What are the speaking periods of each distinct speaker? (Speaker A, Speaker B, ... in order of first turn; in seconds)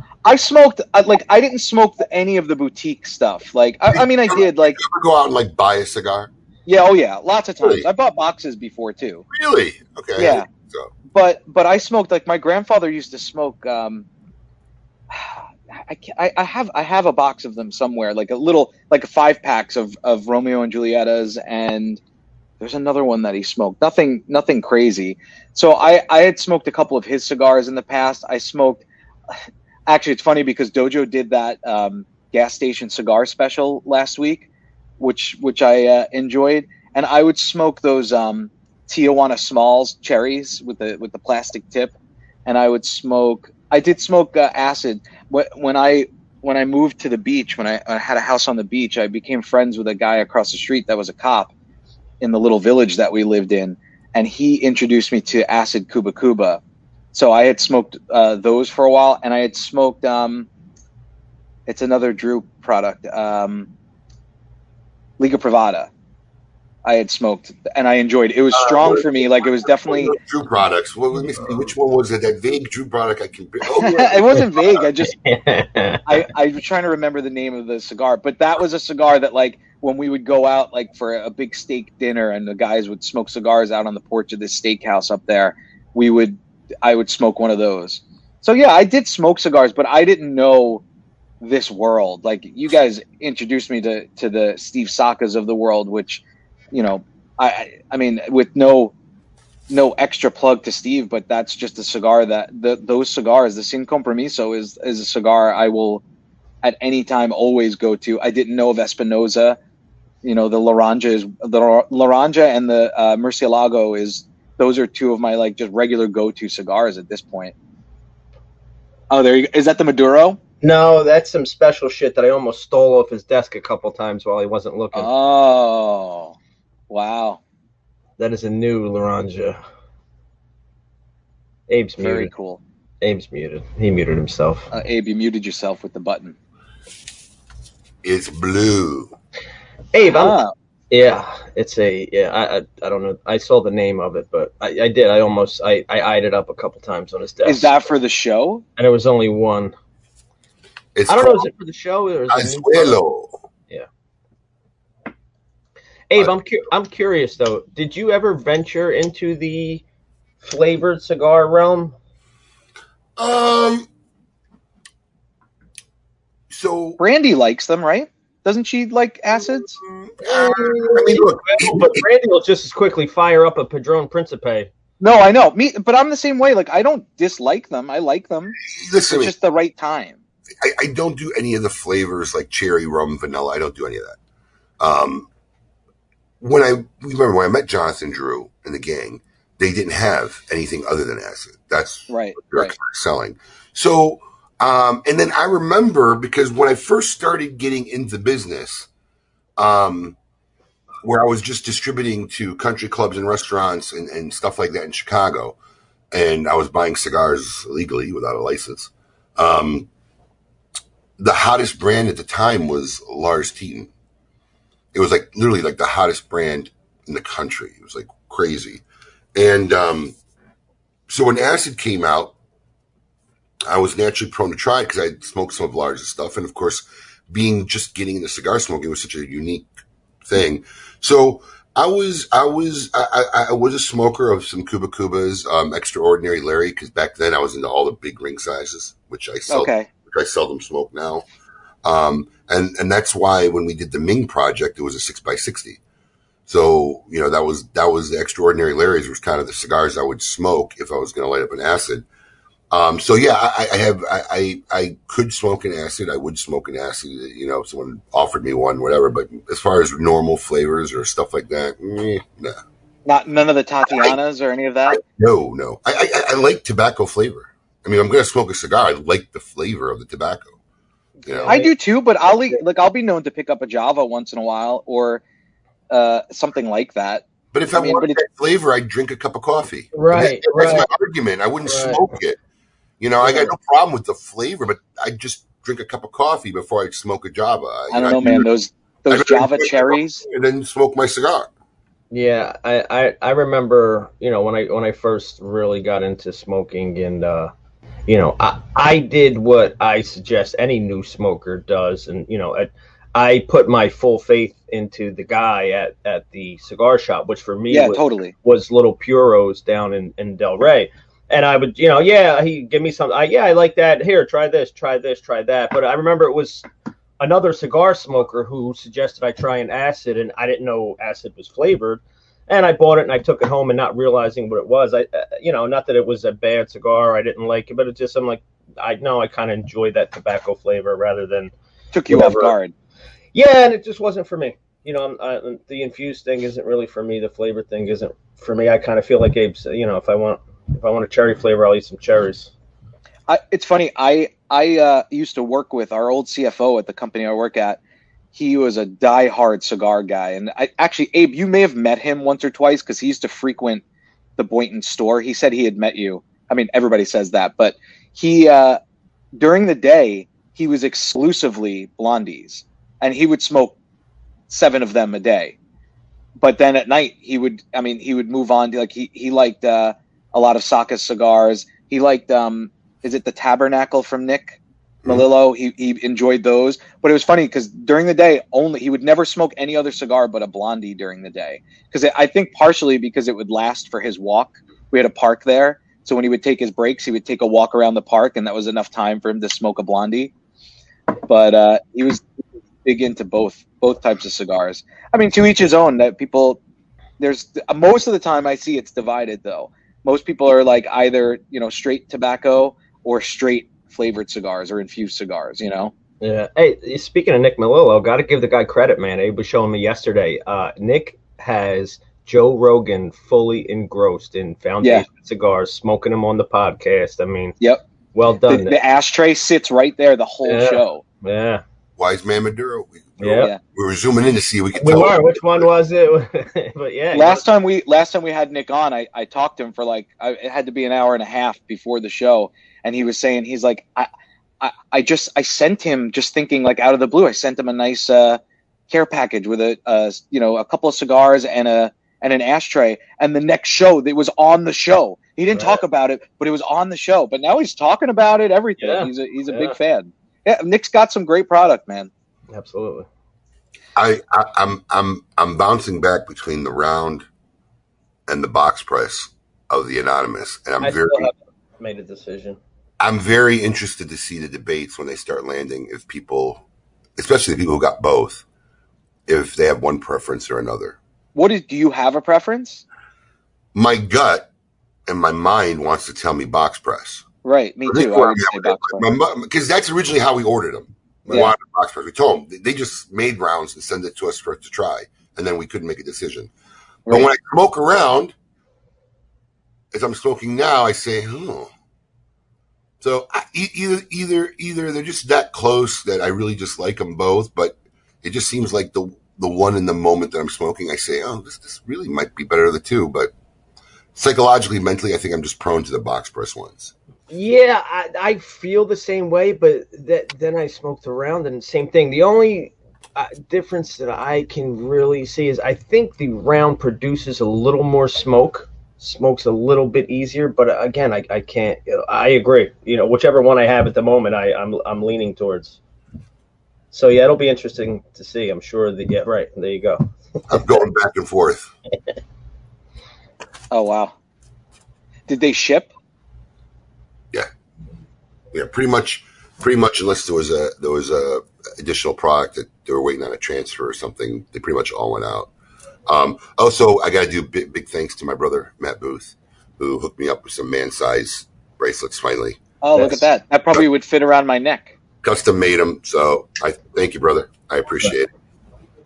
Speaker A: 0.2-4.8, 6.7-9.2, 10.2-10.4, 11.1-14.1, 15.1-22.0, 22.6-28.8, 29.9-34.5, 35.0-41.9, 42.5-51.5, 52.2-56.6, 57.1-60.5, 61.7-63.7, 65.2-65.9, 66.8-70.2, 73.7-75.2, 76.0-90.8, 91.4-98.9, 99.7-106.0, 106.6-109.6, 110.2-117.5, 119.1-120.4, 124.9-126.3, 126.9-127.4, 132.0-132.6, 134.7-136.3, 140.1-140.5, 147.4-148.6, 167.0-169.8, 175.0-180.2, 192.1-192.7, 239.5-239.9, 263.0-265.0, 271.5-275.2, 275.9-278.2, 287.9-290.2, 307.7-308.3, 331.9-332.7, 343.3-347.8, 348.3-353.8, 354.4-358.8, 359.3-363.8, 364.5-365.6, 366.4-390.3, 391.3-392.2, 392.8-396.6, 397.2-405.9, 418.5-421.0, 427.1-434.1, 434.6-452.1, 471.3-472.8, 477.4-479.1, 481.3-481.5, 533.7-534.1, 535.3-535.9, 552.8-554.9
Speaker B: 3.9-6.3, 7.6-7.9, 9.3-10.9, 68.5-74.5, 138.0-139.1, 150.9-151.5, 152.3-153.4, 163.2-163.9, 166.5-167.0, 169.8-172.1, 178.7-179.3, 180.6-184.2, 184.8-185.3, 186.4-198.9, 199.6-200.2, 201.0-205.6, 206.1-209.9, 211.2-213.9, 214.9-218.8, 219.3-220.1, 221.1-222.3, 223.6-229.7, 230.2-241.2, 241.8-245.8, 246.5-252.1, 252.7-262.6, 263.9-264.1, 264.9-270.5, 271.2-271.6, 277.5-282.4, 283.0-288.5, 289.1-291.5, 422.0-425.7, 453.9-457.2, 458.3-461.3, 463.0-466.6, 467.2-468.4, 469.3-471.0, 473.7-474.5, 475.1-477.2, 477.9-486.5, 487.1-488.3, 489.9-491.7, 493.0-503.3, 504.1-506.9, 530.5-531.7, 538.5-545.5, 546.1-552.6, 555.2-558.3
Speaker C: 75.1-76.0, 120.6-125.1, 128.2-129.6, 131.7-132.3, 133.0-134.7, 139.9-140.4, 140.9-147.9, 148.8-149.7, 151.1-153.0, 156.1-159.8, 160.4-161.9, 170.2-174.7, 271.2-271.7, 279.9-280.9, 281.7-282.0, 292.1-297.5, 298.1-316.6, 317.2-331.5, 332.1-332.6, 333.3-342.5, 406.2-417.5, 418.1-418.8, 420.4-421.6, 423.2-423.5, 424.8-427.4, 445.6-445.8, 448.8-449.7, 452.5-453.1, 460.8-462.6, 507.3-525.8, 526.9-530.7, 553.0-553.2